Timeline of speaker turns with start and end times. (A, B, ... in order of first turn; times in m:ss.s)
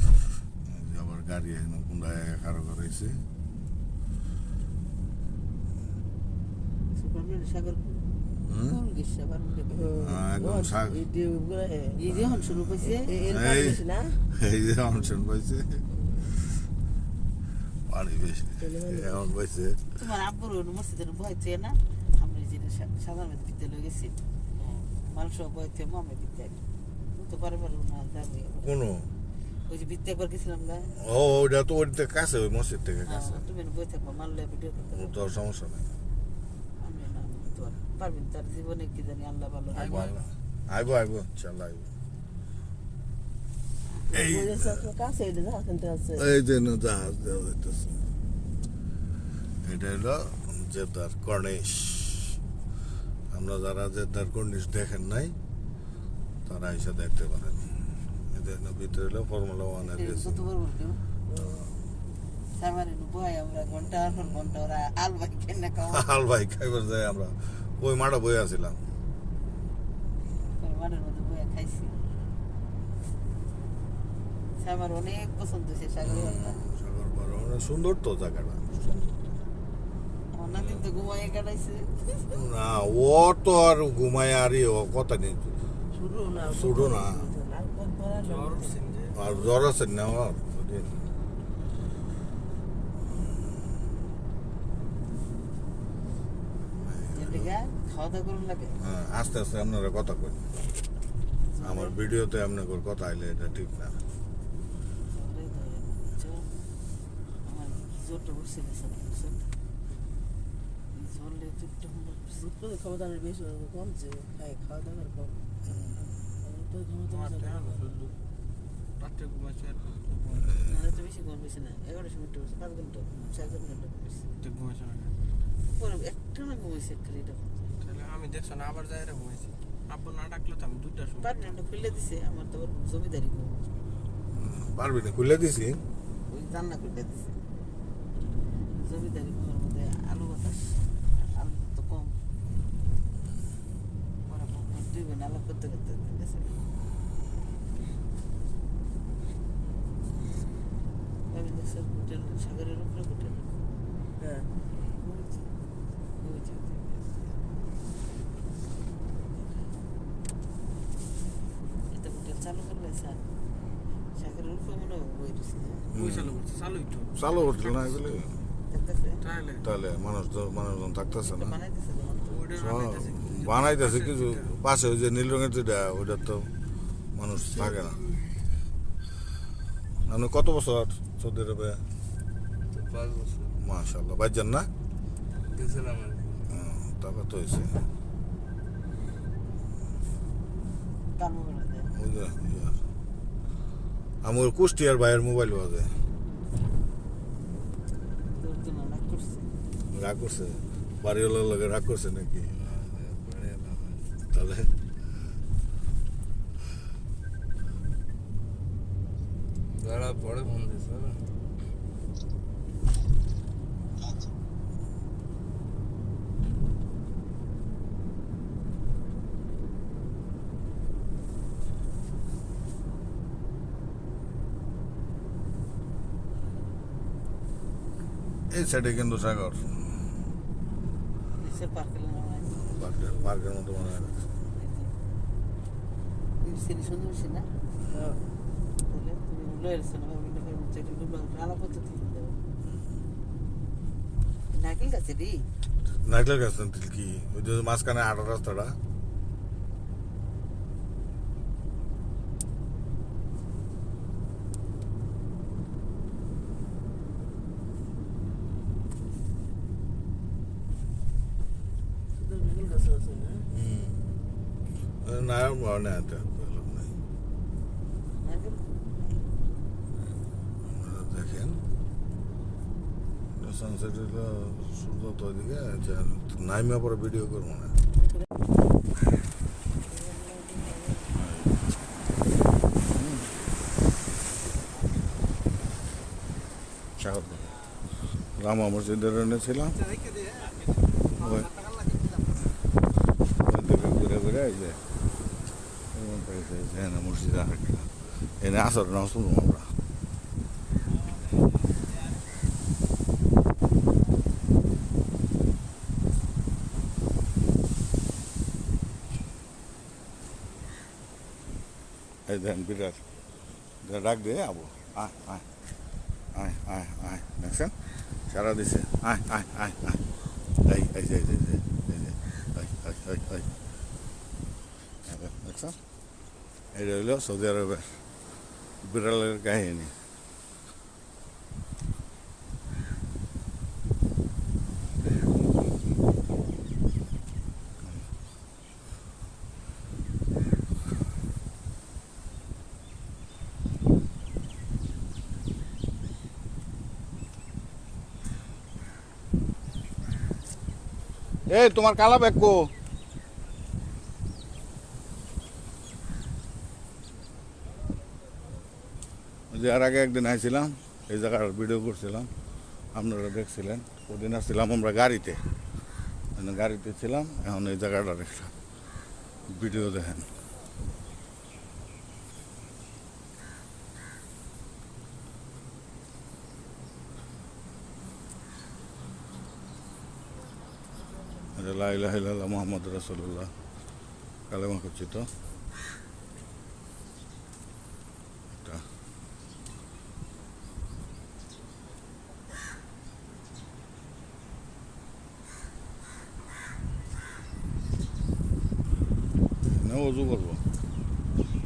0:00.7-0:03.2 A
0:07.0-0:09.7 B
0:08.5-0:08.8 A
0:09.2-0:12.0 C
0:10.0-0:11.0 A
0:12.0-0:13.2 B
0:12.1-0:15.8 A
0:12.8-0:14.2 C
0:15.9-0:16.3 C
0:17.9-0:19.9 A
0:18.6-0:19.3 C
0:20.0-0:24.2 B
0:24.6-0:24.9 D
0:25.0-0:26.6 B
0:27.1-0:28.7 B
0:28.6-0:29.1 A
0:29.7-0:31.0 B
0:31.0-0:33.4 A
0:33.1-0:35.2 B
0:34.9-0:35.9 A
0:36.8-0:40.1 B
0:39.7-0:40.2 D
0:39.8-0:41.9 A
0:44.1-0:46.3 C
0:44.1-0:44.8 A
0:46.2-0:48.0 A
0:49.6-0:52.4 A
0:53.3-0:55.4 A
0:56.5-0:57.7 A
0:58.3-1:00.5 A
0:59.8-1:01.1 B
1:02.6-1:06.1 B
1:05.9-1:08.8 A
1:10.6-1:12.0 B
1:14.6-1:16.6 B
1:16.1-1:19.1 A
1:16.2-1:16.6 E
1:20.3-1:22.3 B
1:22.3-1:25.6 A
1:25.9-1:28.8 C
1:26.5-1:27.3 A
1:28.2-1:29.5 D
1:29.1-1:31.0 A
1:36.8-1:37.5 A
1:37.1-1:38.8 B
1:38.8-1:40.4 A
1:41.4-1:42.0 B
1:41.6-1:44.0 A
1:45.0-1:46.5 B
1:47.4-1:49.4 B
1:50.9-1:52.4 B
1:52.4-1:55.4 C
1:55.7-1:56.0 A
1:56.4-1:57.9 C
1:57.1-1:58.2 D
1:59.0-2:00.6 D
2:00.6-2:04.3 B
2:04.4-2:05.2 D
2:05.7-2:07.7 B
2:07.8-2:11.6 D
2:11.2-2:13.7 B
2:14.3-2:15.8 A
2:16.3-2:17.4 B
2:18.7-2:22.2 B
2:24.3-2:26.6 B
2:31.3-2:33.5 B
2:34.2-2:34.5 C
2:34.8-2:35.5 B
2:36.2-2:37.3 B
2:41.9-2:43.2 B
2:44.2-2:45.9 B
2:45.9-2:46.3 A
2:45.9-2:48.1 D
2:47.2-2:48.3 A
2:48.7-2:49.2 B
2:49.2-2:49.7 D
2:49.6-2:51.6 A
2:51.1-2:52.4 B
2:52.3-2:54.6 D
2:52.5-2:56.5 A
2:57.2-2:58.0 A
3:00.1-3:01.8 A
3:02.7-3:03.6 E
3:03.6-3:04.7 A
3:05.5-3:06.5 E
3:06.5-3:07.8 A
3:11.2-3:11.9 B
3:11.9-3:12.8 A
3:14.2-3:15.9 A
3:18.3-3:19.5 B
3:19.9-3:22.5 A
3:22.5-3:24.1 E
3:24.3-3:24.7 A
3:29.7-3:31.2 E
3:48.5-3:49.8 A
3:51.4-3:53.4 B
3:52.5-3:54.1 A
3:54.5-3:55.0 B
3:56.4-3:57.5 B
3:57.8-3:58.2 C
3:58.8-4:02.4 B
4:04.5-4:05.4 B
4:06.0-4:08.8 A
4:22.1-4:23.5 C
4:23.5-4:24.0 A
4:25.0-4:26.9 A
4:28.2-4:28.7 B
4:30.6-4:31.6 A
4:33.3-4:37.7 A
4:39.8-4:41.2 C
4:41.2-4:41.6 A
4:42.9-4:43.3 A
4:47.0-4:47.6 A
4:48.4-4:49.9 A
4:51.2-4:51.6 A
4:53.4-4:54.8 A
4:55.9-4:59.7 A
5:12.3-5:13.0 A
5:13.8-5:15.5 A
5:16.3-5:17.8 A
5:18.3-5:20.1 A
5:20.6-5:23.5 A
5:25.0-5:25.8 A
5:26.7-5:28.0 A
5:28.8-5:29.9 A
5:51.5-5:52.7 A
5:59.5-6:02.3 A
6:02.9-6:05.4 A
6:06.4-6:08.5 A
6:09.5-6:10.3 A
6:21.6-6:23.5 A
6:24.5-6:25.3 A
6:39.7-6:40.6 A